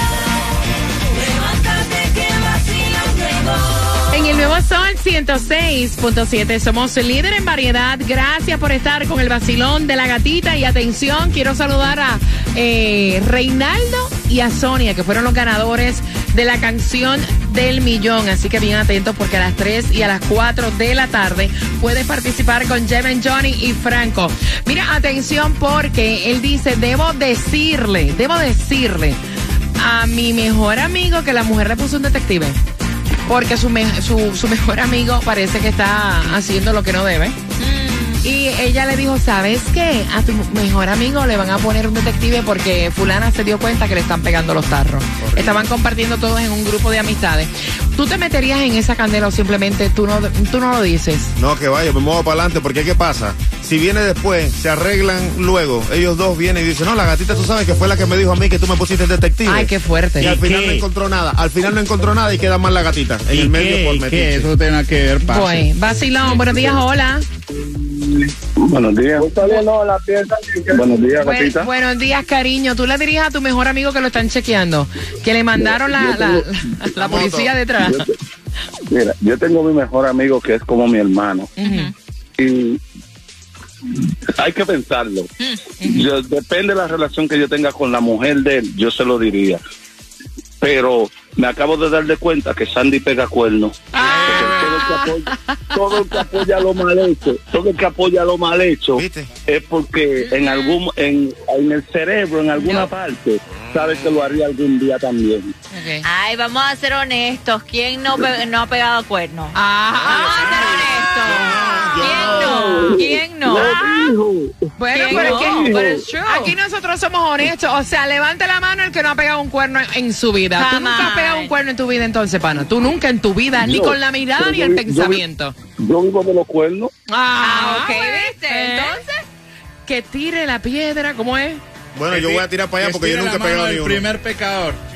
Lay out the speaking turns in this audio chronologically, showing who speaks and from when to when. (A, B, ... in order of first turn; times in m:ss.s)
0:01.3-0:04.0 A
0:04.1-0:29.2 B
0:29.8-0:32.6 B
0:33.3-0:37.4 B
0:37.6-0:38.2 A
0:38.2-0:51.3 B
0:45.2-0:45.6 C
0:51.4-1:04.5 C
0:59.4-1:00.4 B
1:00.3-1:00.8 D
1:03.3-1:05.7 D
1:05.2-1:07.2 B
1:08.6-1:11.7 E
1:11.2-1:18.0 B
1:15.6-1:16.4 E
1:17.0-1:17.6 C
1:18.9-1:21.5 E
1:21.6-1:21.9 B
1:21.6-1:21.9 A
1:22.4-1:22.8 E
1:24.4-1:25.3 E
1:25.8-1:26.1 B
1:25.8-1:29.6 E
1:30.6-1:45.5 E
1:34.0-1:35.0 B
1:34.3-1:34.7 C
1:38.9-1:39.3 C
1:40.3-1:40.8 A
1:42.6-1:42.9 A
1:45.7-1:46.1 B
1:46.0-1:53.8 A
1:49.5-1:54.1 B
1:51.3-1:52.7 C
1:52.5-1:54.5 E
1:54.8-1:55.7 B
1:54.9-1:56.5 A
1:55.1-1:56.0 E
1:56.2-2:05.5 B
2:00.6-2:01.5 A
2:03.6-2:05.2 E
2:05.8-2:06.9 E
2:07.1-2:09.0 B
2:07.4-2:09.2 A
2:09.8-2:11.6 B
2:11.9-2:14.1 C
2:12.1-2:14.8 D